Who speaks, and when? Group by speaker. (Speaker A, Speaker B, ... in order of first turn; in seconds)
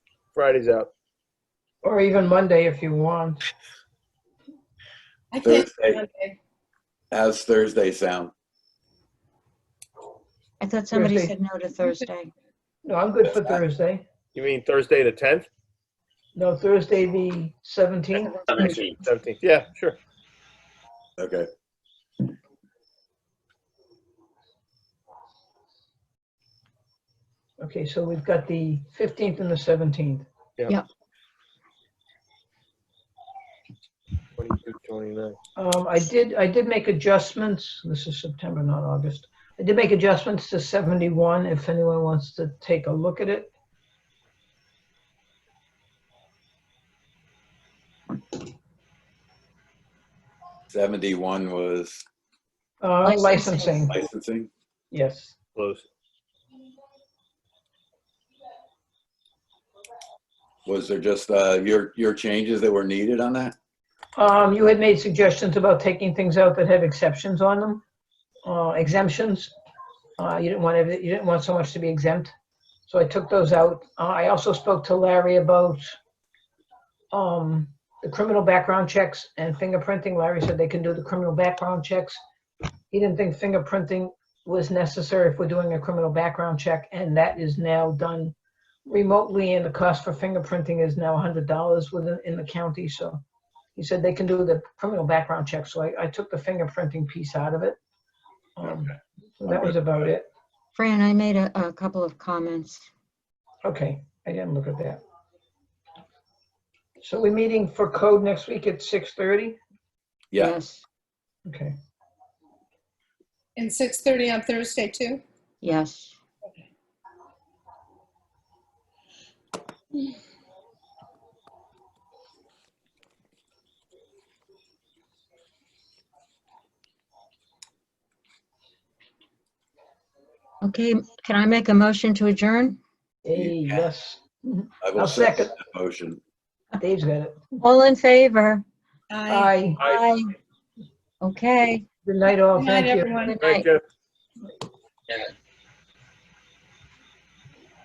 Speaker A: 0.3-0.9, 14.3-15.5, 18.1-20.0, 34.4-35.4, 55.6-55.9, 143.4-143.8
Speaker B: 1.8-3.5, 10.9-11.4, 12.8-14.0, 16.4-18.4, 27.6-30.3, 35.6-43.5, 52.8-54.0, 54.9-55.4, 64.2-67.8, 68.5-69.5, 70.2-72.3, 72.9-76.0, 77.1-82.2, 82.9-88.3, 88.9-93.2, 93.8-97.8, 98.6-100.3, 103.6-105.0, 107.0-109.6, 111.5-111.8, 133.2-135.6, 136.8-137.5, 139.3-139.8, 142.0-143.2
Speaker C: 5.3-6.4, 113.6-115.2, 139.1-139.6, 142.6-143.5
Speaker D: 5.4-6.0, 7.1-8.3, 21.2-21.5, 50.7-52.1, 53.9-54.5, 60.7-63.6, 99.5-99.7, 110.3-110.6, 133.3-133.8, 134.8-136.2
Speaker E: 10.6-12.3, 53.1-53.7, 100.8-102.9, 110.4-110.8, 115.6-116.2, 130.6-132.8, 137.6-138.6, 139.8-140.2, 141.2-141.8, 143.3-143.7